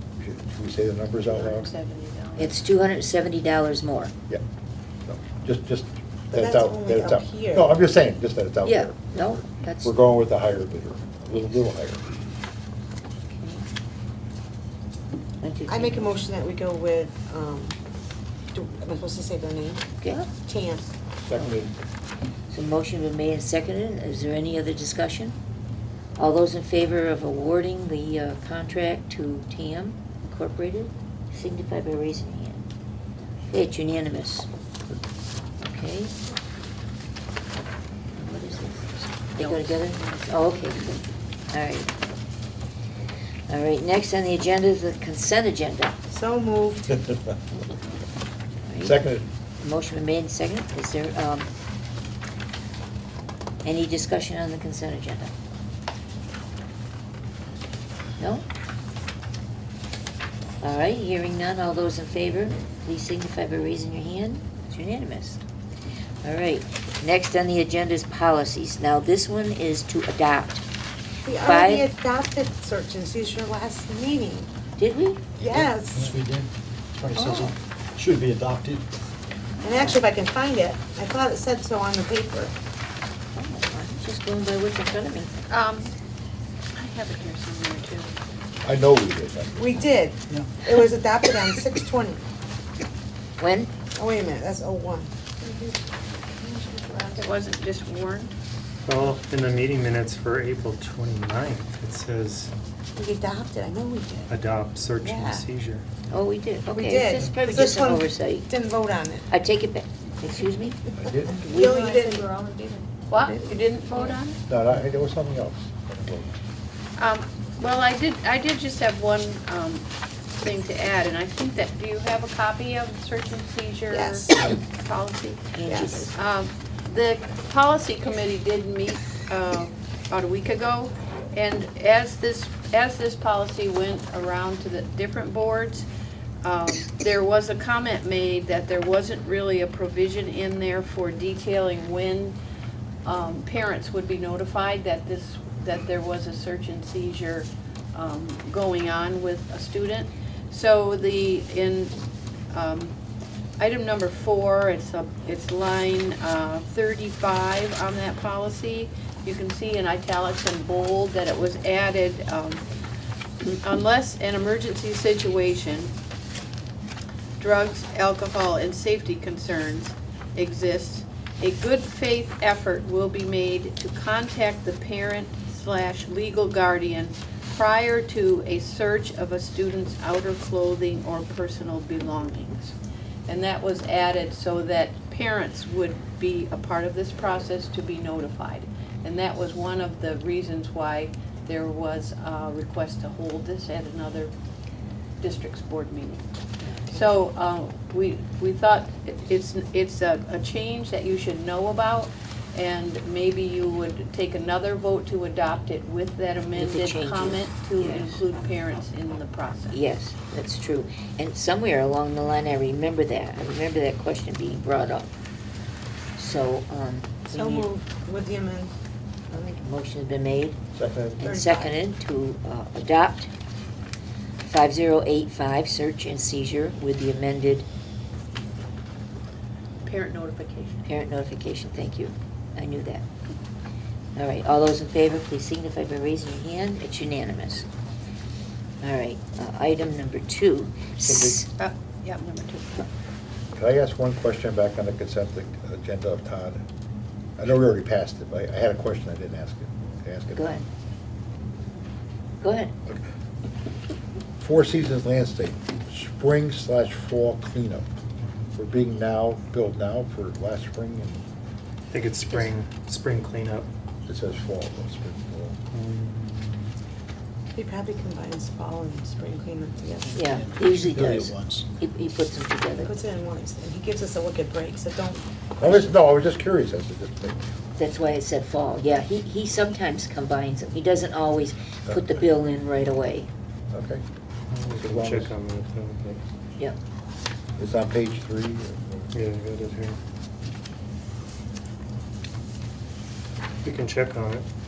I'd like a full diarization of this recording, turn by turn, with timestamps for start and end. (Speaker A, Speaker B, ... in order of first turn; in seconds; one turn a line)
Speaker A: 0.2-1.7
Speaker B: 1.2-2.6
Speaker C: 2.4-4.1
Speaker A: 5.1-12.1
Speaker D: 6.3-7.8
Speaker C: 8.6-10.0
Speaker C: 13.3-13.7
Speaker C: 15.4-16.1
Speaker D: 15.7-17.8
Speaker D: 18.5-19.8
Speaker C: 20.0-20.3
Speaker D: 20.4-20.9
Speaker A: 21.2-21.7
Speaker C: 22.5-25.4
Speaker C: 26.2-32.7
Speaker C: 33.5-34.5
Speaker C: 35.6-36.1
Speaker C: 38.2-41.9
Speaker B: 39.4-40.3
Speaker C: 43.5-46.0
Speaker D: 46.1-47.0
Speaker C: 48.6-49.0
Speaker A: 48.8-49.3
Speaker C: 49.6-51.5
Speaker C: 53.6-55.3
Speaker C: 58.2-58.5
Speaker C: 60.6-65.4
Speaker C: 66.2-70.6
Speaker D: 71.2-74.5
Speaker C: 71.4-71.9
Speaker C: 74.8-75.2
Speaker E: 75.4-78.9
Speaker D: 75.4-76.1
Speaker C: 77.2-77.5
Speaker C: 79.5-80.0
Speaker D: 79.6-82.5
Speaker C: 83.3-85.4
Speaker B: 85.5-85.9
Speaker B: 86.8-88.2
Speaker A: 88.6-89.8
Speaker D: 89.6-92.2
Speaker C: 93.4-93.7
Speaker D: 94.0-95.1
Speaker B: 97.2-98.3
Speaker F: 98.9-102.5
Speaker D: 103.0-104.3
Speaker F: 104.3-105.9
Speaker D: 105.0-105.5
Speaker C: 106.1-108.5
Speaker D: 106.7-109.3
Speaker C: 109.3-110.8
Speaker A: 111.0-111.4
Speaker C: 111.4-111.9
Speaker D: 111.4-112.3
Speaker B: 113.1-114.4
Speaker A: 114.5-116.3
Speaker B: 117.0-119.8
Speaker B: 120.4-135.9
Speaker D: 123.9-124.5
Speaker C: 125.5-126.1
Speaker D: 125.7-126.1
Speaker B: 136.4-142.4
Speaker B: 143.1-152.0
Speaker B: 152.5-152.9
Speaker B: 153.6-162.6
Speaker B: 163.4-165.9
Speaker B: 167.4-182.8
Speaker B: 183.3-194.3
Speaker B: 195.2-196.2
Speaker B: 196.9-209.8
Speaker C: 206.6-208.1
Speaker C: 209.7-215.1
Speaker C: 216.2-217.7
Speaker D: 217.3-218.7
Speaker C: 219.3-220.6
Speaker A: 220.7-221.2
Speaker C: 221.2-223.3
Speaker D: 221.2-221.8
Speaker C: 224.4-227.7
Speaker B: 229.8-230.9
Speaker C: 230.8-233.1
Speaker C: 234.2-237.7
Speaker C: 238.8-241.5
Speaker A: 241.0-241.4
Speaker B: 241.6-242.9
Speaker A: 243.6-246.6
Speaker A: 247.4-250.6
Speaker C: 250.3-250.7
Speaker C: 252.4-252.7
Speaker A: 254.4-257.9
Speaker A: 258.5-261.2
Speaker F: 261.9-263.7
Speaker A: 264.1-265.6
Speaker F: 265.7-266.7
Speaker D: 267.6-270.2
Speaker C: 270.1-272.9
Speaker E: 270.2-271.7
Speaker D: 272.8-275.2
Speaker A: 275.6-277.4
Speaker C: 277.8-283.3
Speaker A: 281.9-282.2
Speaker A: 283.7-284.0
Speaker F: 284.5-286.2
Speaker A: 284.7-285.3
Speaker A: 287.6-289.1
Speaker F: 289.1-290.0
Speaker F: 293.6-294.5